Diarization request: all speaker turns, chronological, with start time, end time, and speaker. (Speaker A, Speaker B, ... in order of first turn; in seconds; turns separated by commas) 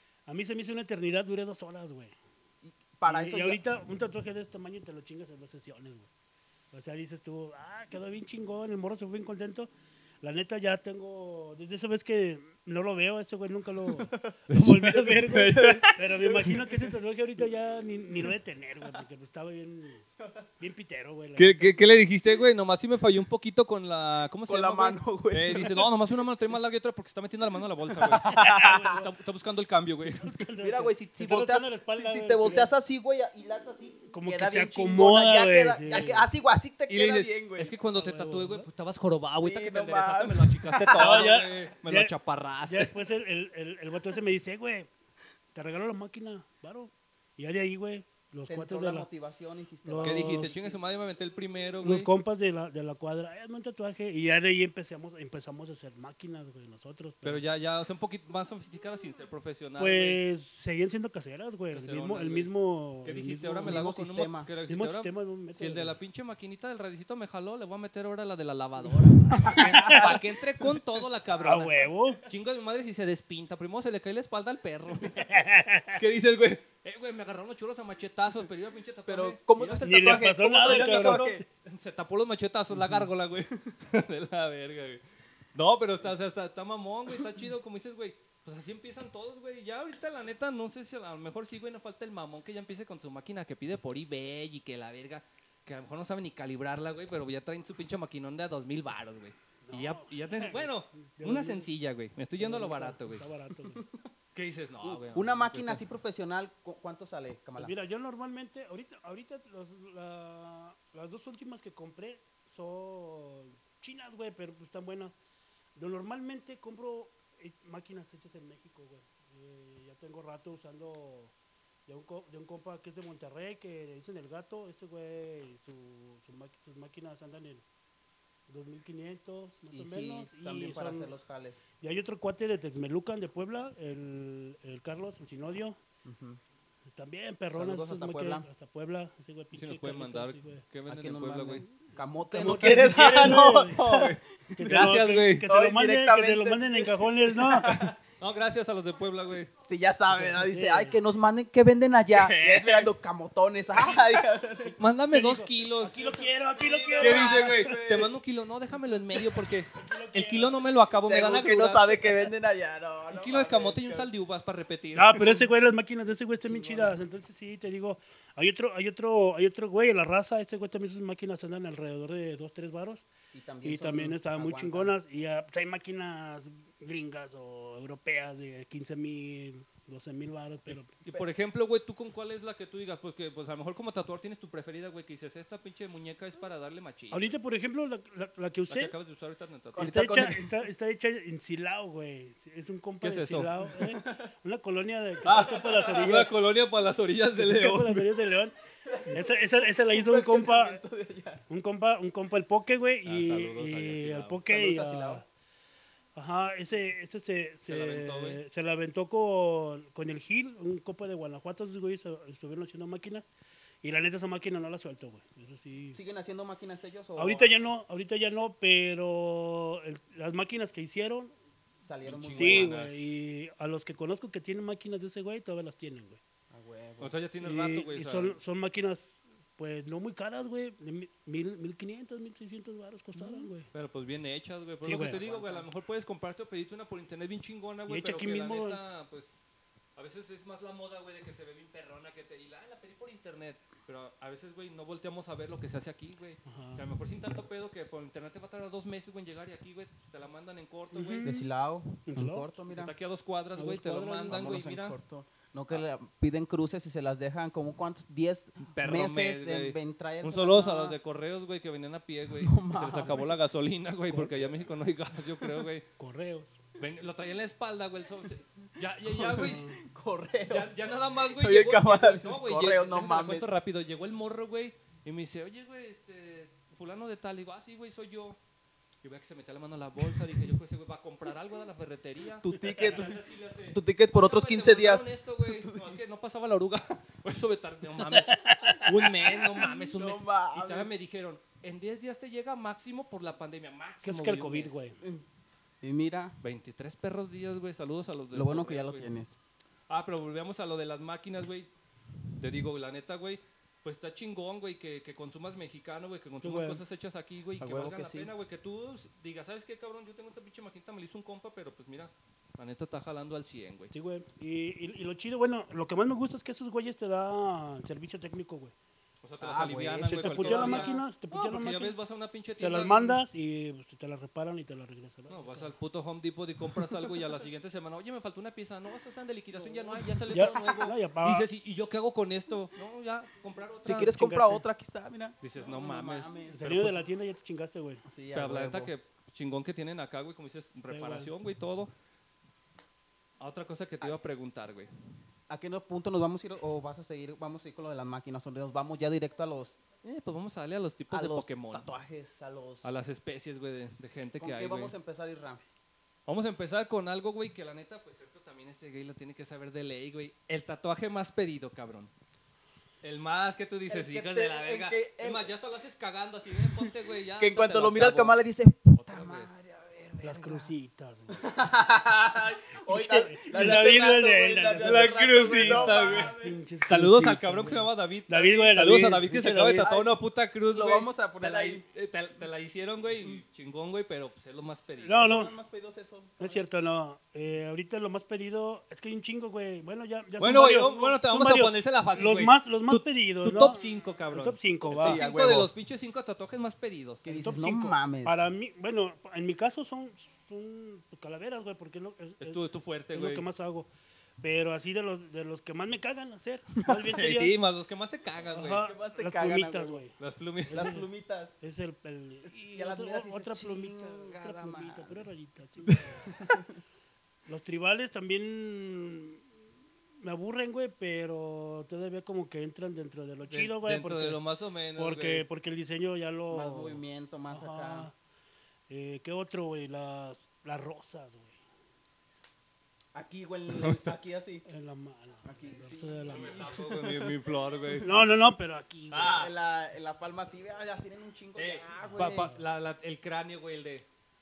Speaker A: 0.3-2.1, Speaker B: 2.6-3.6, Speaker A: 3.1-6.1, Speaker A: 6.7-9.7, Speaker A: 10.2-20.1, Speaker B: 13.9-14.3, Speaker C: 14.5-16.0, Speaker B: 15.5-16.8, Speaker B: 20.2-20.5, Speaker A: 20.6-21.8, Speaker C: 21.4-30.2, Speaker B: 24.5-25.8, Speaker B: 28.1-29.0, Speaker A: 28.3-29.1, Speaker A: 30.2-32.7, Speaker B: 30.6-37.7, Speaker A: 34.1-36.3, Speaker C: 36.9-42.9, Speaker A: 37.9-38.7, Speaker B: 39.4-41.5, Speaker A: 41.0-42.1, Speaker A: 42.7-44.9, Speaker A: 45.5-49.1, Speaker B: 48.5-50.8, Speaker A: 49.9-50.6, Speaker C: 50.0-52.1, Speaker A: 51.8-57.4, Speaker C: 57.2-60.2, Speaker A: 59.8-63.8, Speaker C: 61.7-62.5, Speaker C: 63.0-75.3, Speaker B: 63.7-64.5, Speaker A: 64.7-66.0, Speaker A: 69.3-70.1, Speaker B: 69.4-70.6, Speaker A: 71.5-72.2, Speaker A: 75.1-76.0, Speaker C: 76.0-79.9, Speaker B: 79.1-81.4, Speaker A: 79.8-81.4, Speaker C: 80.6-85.0, Speaker C: 85.5-103.3, Speaker A: 99.7-101.7, Speaker A: 102.4-103.8, Speaker B: 103.7-104.1, Speaker C: 104.3-105.8, Speaker B: 104.8-107.7, Speaker A: 107.6-115.2, Speaker A: 115.8-121.3, Speaker A: 121.9-127.7, Speaker A: 128.5-131.1, Speaker B: 129.7-131.6, Speaker A: 131.8-135.8, Speaker B: 136.0-136.4, Speaker A: 136.9-140.6, Speaker B: 137.5-138.5, Speaker C: 139.5-141.7, Speaker B: 140.9-148.0, Speaker A: 142.3-143.8, Speaker C: 143.7-145.4, Speaker A: 144.6-147.8, Speaker C: 148.2-149.5, Speaker B: 149.7-154.8, Speaker A: 150.1-151.0, Speaker C: 152.1-152.9, Speaker C: 154.8-156.0, Speaker A: 155.1-158.0, Speaker B: 156.0-158.1, Speaker C: 157.0-162.1, Speaker A: 159.1-160.6, Speaker B: 161.0-164.1, Speaker C: 163.1-165.3, Speaker A: 164.9-173.1, Speaker B: 166.4-167.0, Speaker B: 173.3-174.9, Speaker A: 173.6-181.0, Speaker C: 181.0-187.3, Speaker A: 187.1-188.9, Speaker C: 188.7-189.9, Speaker B: 189.7-190.4, Speaker A: 189.8-196.3, Speaker C: 193.0-193.5, Speaker B: 193.9-194.3, Speaker C: 195.2-198.0, Speaker B: 195.4-196.1, Speaker A: 197.4-198.5, Speaker B: 198.9-201.4, Speaker A: 199.1-200.8, Speaker A: 201.5-205.2, Speaker C: 203.1-204.4, Speaker B: 204.4-205.2, Speaker A: 206.2-213.3, Speaker C: 207.7-208.4, Speaker A: 213.8-216.0, Speaker B: 215.9-217.6, Speaker A: 217.2-221.3, Speaker B: 221.8-222.7, Speaker C: 222.0-223.2, Speaker A: 222.4-226.2, Speaker B: 226.5-227.2, Speaker C: 227.0-228.4, Speaker A: 227.4-233.7, Speaker C: 233.2-239.4, Speaker A: 234.8-235.2, Speaker B: 235.0-235.7, Speaker A: 237.9-238.8, Speaker C: 240.0-251.3, Speaker A: 246.5-246.8, Speaker A: 250.9-251.5, Speaker B: 251.2-252.9, Speaker A: 252.1-252.5, Speaker C: 252.7-255.0, Speaker A: 253.6-254.4, Speaker B: 254.3-261.0, Speaker C: 258.6-265.9, Speaker B: 262.4-263.2, Speaker B: 264.1-264.5, Speaker A: 266.0-266.6, Speaker C: 266.8-269.6, Speaker B: 269.1-273.5, Speaker A: 269.4-269.8, Speaker C: 270.5-278.4, Speaker C: 279.0-294.8, Speaker B: 282.4-283.2, Speaker B: 283.7-286.0, Speaker A: 288.2-289.1, Speaker B: 289.5-290.9, Speaker A: 294.0-295.0, Speaker B: 295.8-296.4, Speaker C: 296.4-299.1, Speaker B: 298.3-299.4, Speaker C: 299.9-301.7, Speaker C: 302.4-313.9, Speaker A: 306.4-306.8, Speaker B: 307.6-308.3, Speaker A: 313.9-318.7, Speaker C: 319.2-323.2, Speaker B: 319.4-321.0, Speaker A: 320.1-322.0, Speaker A: 322.6-325.7, Speaker C: 325.3-334.2, Speaker B: 329.5-330.8, Speaker A: 330.3-331.5, Speaker B: 333.8-336.7, Speaker A: 334.0-334.6, Speaker C: 335.4-337.0, Speaker A: 336.5-338.0, Speaker B: 338.1-338.9, Speaker C: 338.3-341.9, Speaker A: 340.9-341.3, Speaker C: 343.4-344.9, Speaker B: 345.5-349.8, Speaker C: 350.0-351.9, Speaker B: 351.1-352.9, Speaker C: 352.8-354.9, Speaker B: 354.4-355.6, Speaker C: 356.3-362.1, Speaker C: 363.0-368.4, Speaker B: 363.9-365.5, Speaker B: 366.7-370.7, Speaker C: 369.0-369.5, Speaker A: 370.2-371.5, Speaker B: 371.3-376.6, Speaker A: 372.9-379.9, Speaker C: 374.8-376.3, Speaker C: 376.9-385.2, Speaker B: 379.8-380.2, Speaker B: 380.7-381.8, Speaker A: 385.0-385.5, Speaker B: 385.2-386.6, Speaker A: 386.4-395.3, Speaker C: 390.4-397.3, Speaker B: 394.9-395.7, Speaker B: 397.2-398.4, Speaker A: 397.3-403.9, Speaker C: 402.4-403.4, Speaker A: 404.4-407.6, Speaker B: 406.8-407.2, Speaker C: 407.1-408.8, Speaker A: 408.5-410.1, Speaker B: 408.8-410.0, Speaker C: 410.2-410.9, Speaker A: 410.7-411.1, Speaker B: 410.7-411.6, Speaker A: 411.6-416.3, Speaker B: 412.5-415.3, Speaker B: 415.9-416.8, Speaker A: 417.5-419.4, Speaker A: 420.2-424.4, Speaker C: 423.5-425.4, Speaker A: 425.0-428.1, Speaker B: 426.5-428.1, Speaker A: 428.9-431.6, Speaker B: 433.1-434.6, Speaker C: 433.8-434.1, Speaker A: 434.6-436.7, Speaker B: 435.4-437.1, Speaker C: 436.3-438.1, Speaker A: 438.0-439.4, Speaker C: 439.1-439.5, Speaker B: 439.3-442.5, Speaker C: 441.6-444.1, Speaker A: 442.1-442.6